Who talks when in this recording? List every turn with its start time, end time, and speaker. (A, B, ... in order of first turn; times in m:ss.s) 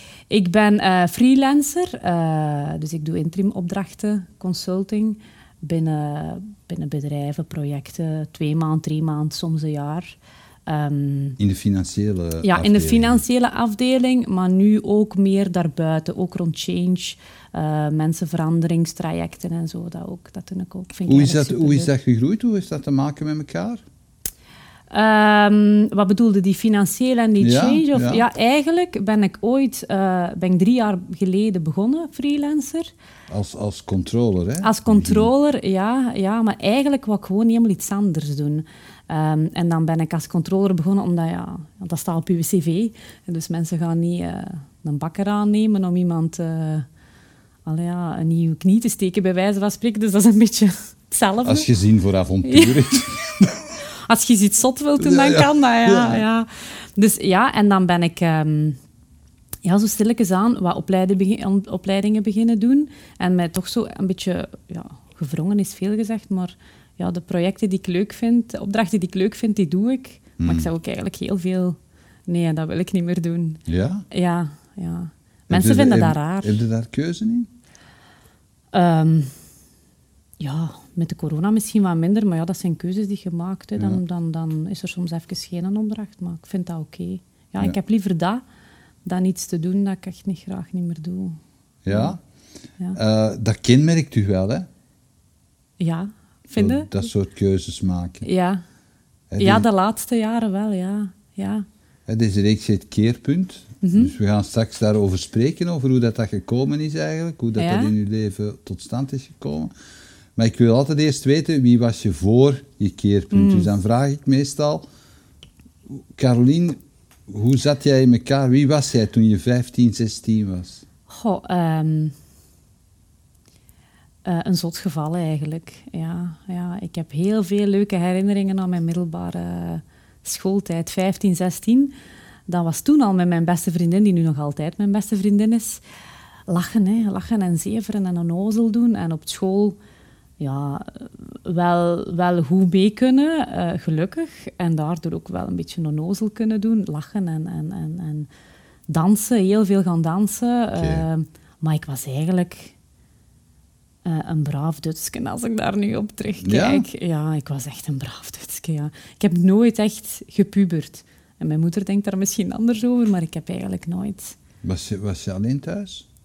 0:00.3-0:11.4 A
0:11.4-0:13.2 B
0:12.4-0:21.9 A
0:21.1-0:23.8 B
0:24.9-0:32.9 A
0:27.4-0:28.2 B
0:33.3-0:35.3 B
0:34.6-0:46.9 A
0:47.7-0:51.7 A
0:51.4-0:53.6 B
0:52.4-0:53.1 A
0:54.1-0:58.8 A
0:55.0-0:56.2 B
0:59.6-1:16.6 A
1:10.4-1:10.7 B
1:13.7-1:14.0 B
1:15.5-1:17.5 B
1:18.7-1:19.4 A
1:20.4-1:28.4 A
1:29.0-1:32.2 A
1:31.8-1:32.2 B
1:33.0-1:34.7 B
1:35.8-1:37.1 A
1:36.6-1:38.3 B
1:38.2-1:38.6 A
1:39.3-1:39.6 B
1:39.4-1:41.7 A
1:42.1-1:49.7 B
1:43.8-1:44.1 A
1:47.6-1:47.9 A
1:50.4-1:54.8 B
1:53.3-1:53.7 A
1:56.0-2:00.8 B
2:01.1-2:02.2 A
2:04.2-2:11.9 A
2:12.5-2:15.8 A
2:16.5-2:19.8 A
2:20.4-2:28.3 A
2:28.9-2:32.8 A
2:30.8-2:31.0 B
2:34.0-2:44.4 A
2:36.4-2:36.8 B
2:44.6-2:46.1 B